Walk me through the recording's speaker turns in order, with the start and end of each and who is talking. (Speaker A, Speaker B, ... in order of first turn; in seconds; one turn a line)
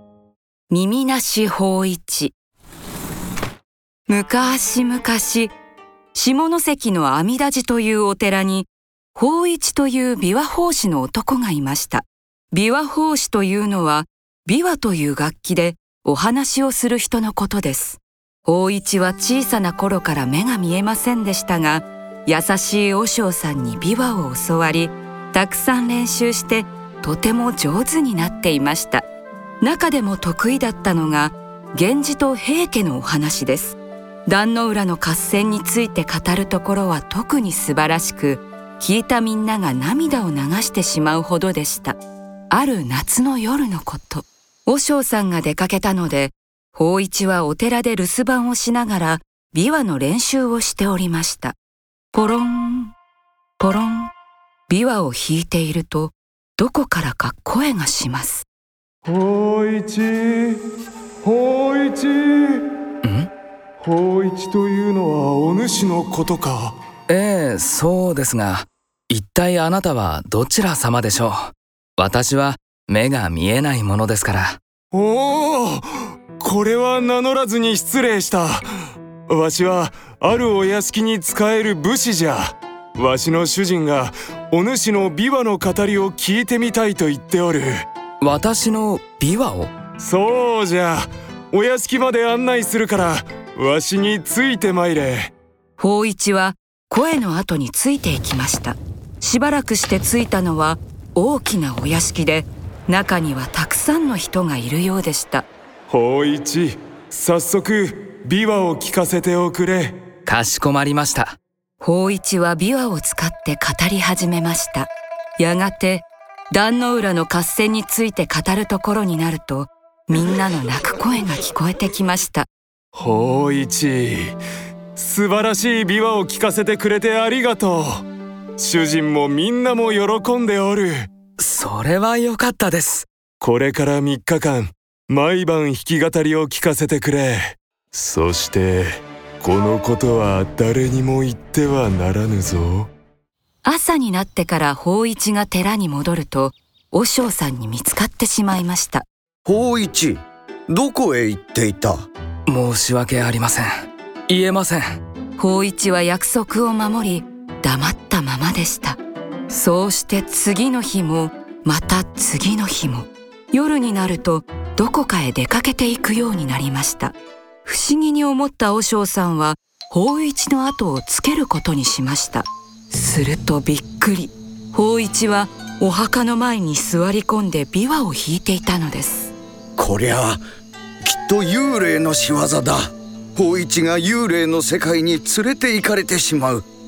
Speaker A: 0.7-2.3
Speaker A: 4.1-5.5
Speaker A: 6.1-29.0
Speaker A: 29.6-42.0
Speaker A: 42.5-51.6
Speaker A: 52.1-52.9
Speaker A: 53.6-54.1
Speaker A: 54.7-58.5
Speaker B: 59.0-60.6
Speaker B: 61.2-62.7
Speaker C: 63.0-63.3
Speaker B: 63.8-66.8
Speaker C: 67.1-74.6
Speaker B: 74.9-78.7
Speaker B: 79.3-87.8
Speaker C: 88.2-89.7
Speaker B: 90.0-95.3
Speaker A: 95.8-105.5
Speaker B: 105.9-110.0
Speaker C: 110.2-111.4
Speaker A: 111.8-122.5
Speaker B: 122.9-124.4
Speaker B: 125.0-128.1
Speaker B: 128.6-131.1
Speaker C: 131.4-133.1
Speaker B: 133.4-142.9
Speaker A: 143.6-149.1
Speaker D: 149.4-152.0
Speaker C: 152.5-153.7
Speaker C: 154.3-154.8
Speaker A: 155.4-179.3
Speaker D: 179.8-180.4
Speaker D: 181.0-186.7